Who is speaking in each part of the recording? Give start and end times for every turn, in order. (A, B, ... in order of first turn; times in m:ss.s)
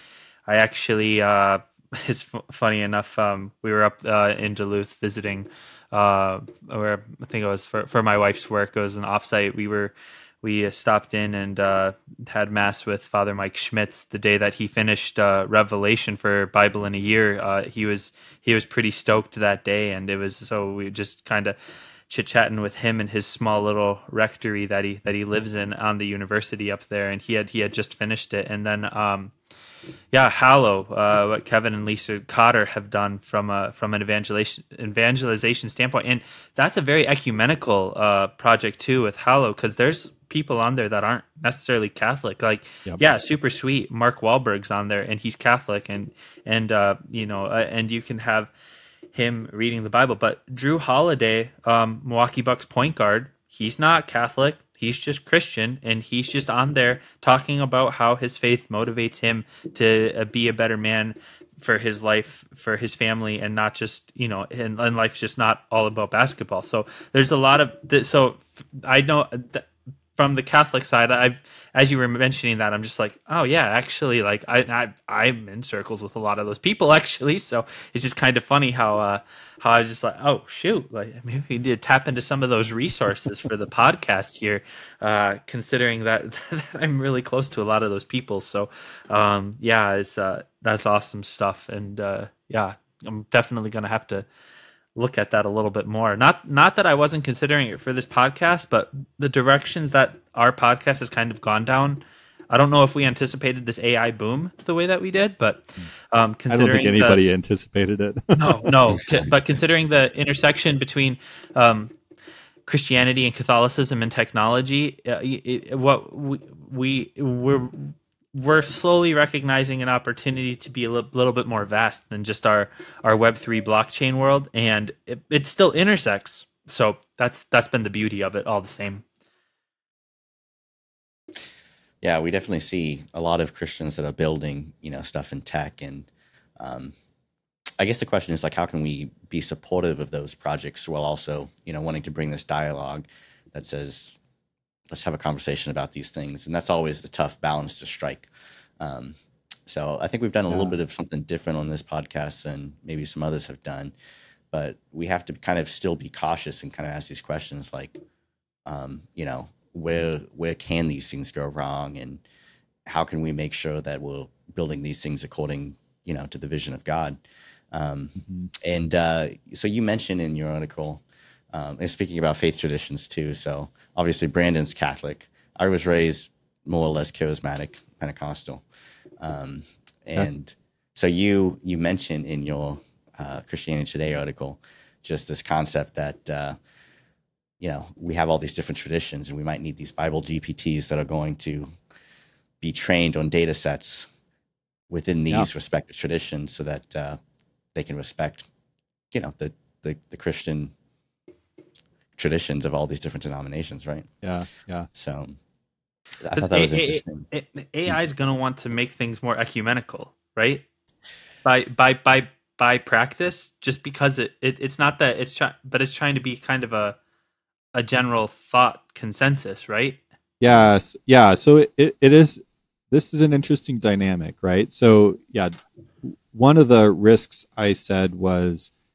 0:00.5-0:21.6 A
0:22.1-0:29.3 A
0:30.1-0:48.5 A
0:49.1-1:34.2 A
1:35.0-1:47.2 A
1:46.5-1:48.7 B
1:48.4-1:52.0 A
1:52.6-2:09.0 A
2:12.0-2:16.9 C
2:17.8-2:24.2 C
2:24.9-2:28.3 C
2:28.8-2:29.1 C
2:29.6-2:33.9 C
2:30.5-2:30.8 B
2:34.5-2:38.0 C
2:38.6-2:42.2 C
2:42.8-2:47.2 C
2:47.7-2:58.6 C
2:48.2-2:48.5 B
2:59.2-3:06.6 C
3:07.6-3:11.7 C
3:12.6-3:14.1 C
3:14.9-3:17.2 C
3:17.7-3:18.5 C
3:19.1-3:20.7 C
3:22.2-3:24.1 C
3:24.2-3:24.9 B
3:24.9-3:25.4 C
3:26.2-3:27.3 C
3:26.3-3:30.6 A
3:31.4-3:37.0 A
3:37.7-3:40.0 A
3:40.4-3:48.7 B